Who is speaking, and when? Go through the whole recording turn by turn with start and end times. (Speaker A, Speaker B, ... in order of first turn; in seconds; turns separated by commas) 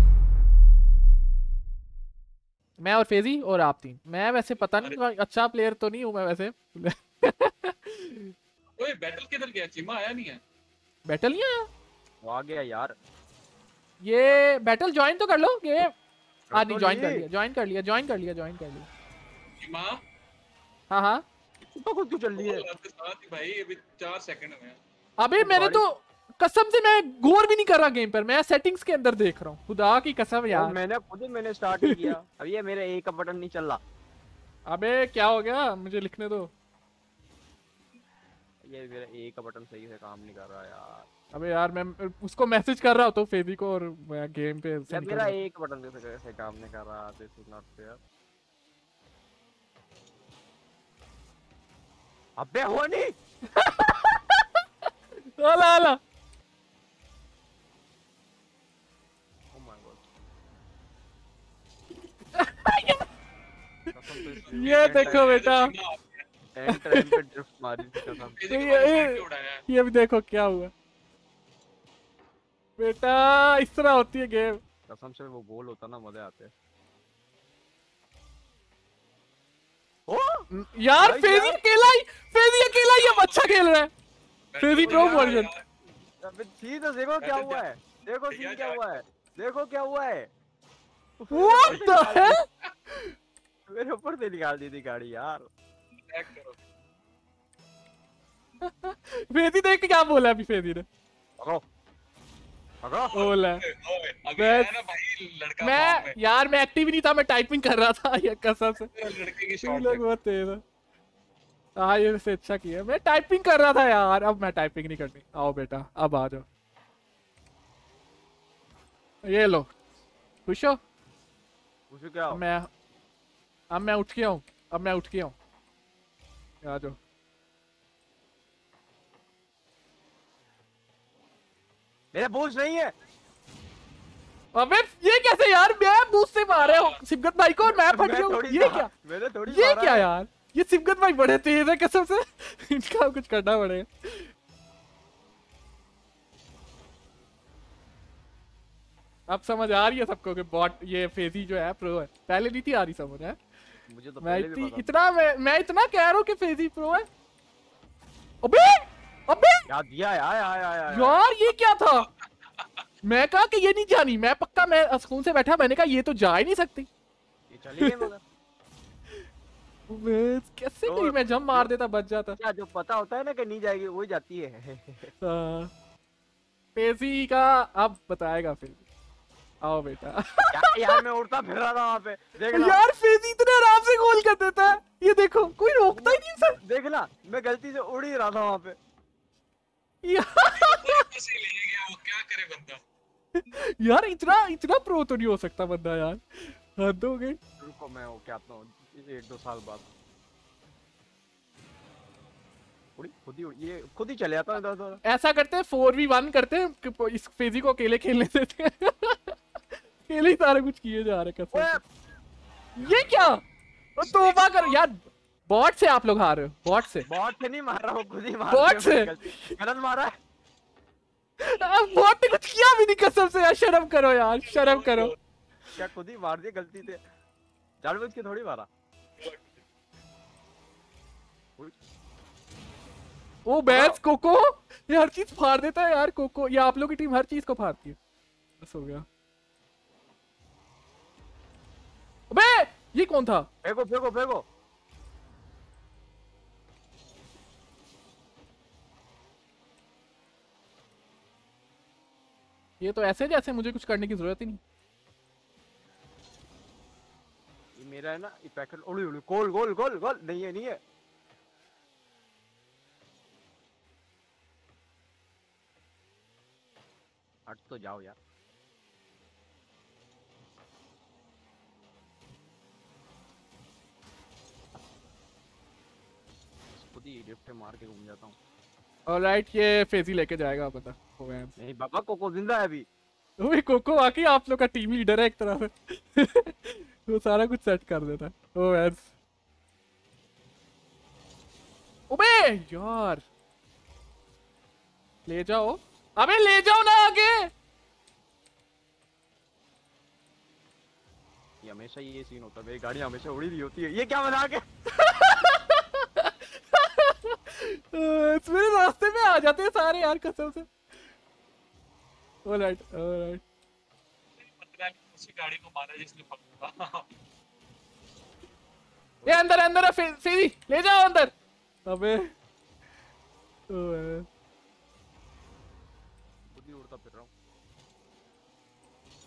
Speaker A: 2.8-8.3, Speaker B: 8.8-10.4, Speaker A: 11.1-11.7, Speaker C: 12.2-12.9, Speaker A: 14.0-15.9, Speaker C: 16.5-17.3, Speaker A: 16.5-18.9, Speaker B: 19.6-20.0, Speaker A: 20.9-21.2, Speaker C: 21.8-22.6, Speaker B: 22.4-24.8, Speaker A: 25.2-30.8, Speaker C: 25.4-25.9, Speaker C: 30.5-33.8, Speaker A: 31.8-32.1, Speaker A: 34.7-36.5, Speaker C: 38.6-41.1, Speaker A: 41.3-45.4, Speaker C: 44.9-48.0, Speaker C: 52.4-53.1, Speaker A: 53.5-54.5, Speaker A: 55.2-56.0, Speaker C: 59.5-60.1, Speaker A: 62.4-63.0, Speaker C: 63.9-65.4, Speaker B: 64.5-66.2, Speaker A: 64.5-65.7, Speaker C: 66.5-68.4, Speaker B: 68.3-69.6, Speaker A: 68.5-70.7, Speaker A: 72.8-74.6, Speaker C: 74.9-76.5, Speaker C: 80.1-80.5, Speaker A: 80.5-83.9, Speaker C: 81.0-81.6, Speaker B: 82.7-83.5, Speaker B: 84.5-85.6, Speaker A: 84.6-85.5, Speaker C: 84.8-85.4, Speaker C: 86.2-90.3, Speaker B: 87.2-87.6, Speaker B: 88.3-89.0, Speaker C: 91.2-92.4, Speaker A: 91.3-93.1, Speaker C: 93.7-95.5, Speaker B: 96.1-96.6, Speaker A: 98.6-100.8, Speaker C: 102.8-103.2, Speaker B: 103.0-106.2, Speaker A: 103.1-103.6, Speaker A: 104.4-104.8, Speaker A: 105.6-108.9, Speaker B: 108.8-110.0, Speaker A: 109.6-110.6, Speaker A: 111.8-116.4, Speaker A: 119.2-119.7, Speaker A: 120.5-120.8, Speaker C: 121.9-122.4, Speaker A: 122.3-122.7, Speaker A: 123.7-125.3, Speaker A: 126.6-127.0, Speaker C: 132.1-132.9, Speaker A: 134.5-138.9, Speaker B: 136.5-137.0, Speaker C: 137.6-140.1, Speaker A: 139.5-144.3, Speaker A: 149.3-153.4, Speaker C: 153.9-154.9, Speaker A: 154.2-157.1, Speaker A: 158.4-159.7, Speaker C: 159.7-161.2, Speaker A: 160.9-162.1, Speaker B: 162.6-162.8, Speaker A: 163.0-166.9, Speaker C: 167.5-168.2, Speaker A: 167.8-168.1, Speaker A: 169.9-172.4, Speaker C: 170.8-171.7, Speaker C: 172.4-175.1, Speaker A: 175.2-175.7, Speaker A: 176.7-178.8, Speaker A: 179.6-181.0, Speaker C: 180.5-182.8, Speaker A: 182.5-186.6, Speaker C: 185.9-188.8, Speaker A: 190.0-191.0, Speaker B: 190.4-192.8, Speaker A: 193.3-197.4, Speaker C: 197.6-199.9, Speaker C: 203.0-205.0, Speaker A: 205.0-209.3, Speaker A: 210.0-211.8, Speaker C: 211.5-211.8, Speaker A: 212.8-213.4, Speaker A: 214.0-217.1, Speaker B: 214.0-214.8, Speaker C: 217.1-220.1, Speaker A: 218.5-219.5, Speaker A: 221.4-225.1, Speaker B: 224.4-225.2, Speaker C: 225.8-227.0, Speaker C: 227.8-228.7, Speaker B: 229.2-229.6, Speaker A: 233.4-238.0, Speaker C: 233.7-234.0, Speaker A: 238.6-239.1, Speaker A: 242.3-243.5, Speaker C: 243.6-244.4, Speaker A: 252.8-254.6, Speaker C: 257.8-260.8, Speaker C: 267.5-268.1, Speaker C: 276.7-278.4, Speaker A: 279.1-281.5, Speaker C: 281.6-282.9, Speaker A: 283.4-289.1, Speaker A: 292.1-293.2, Speaker A: 295.2-297.5, Speaker C: 301.6-304.6, Speaker A: 304.9-310.7, Speaker A: 312.4-313.4, Speaker B: 314.4-317.1, Speaker A: 319.2-321.3, Speaker A: 321.9-322.3, Speaker A: 323.7-324.2, Speaker C: 326.5-327.3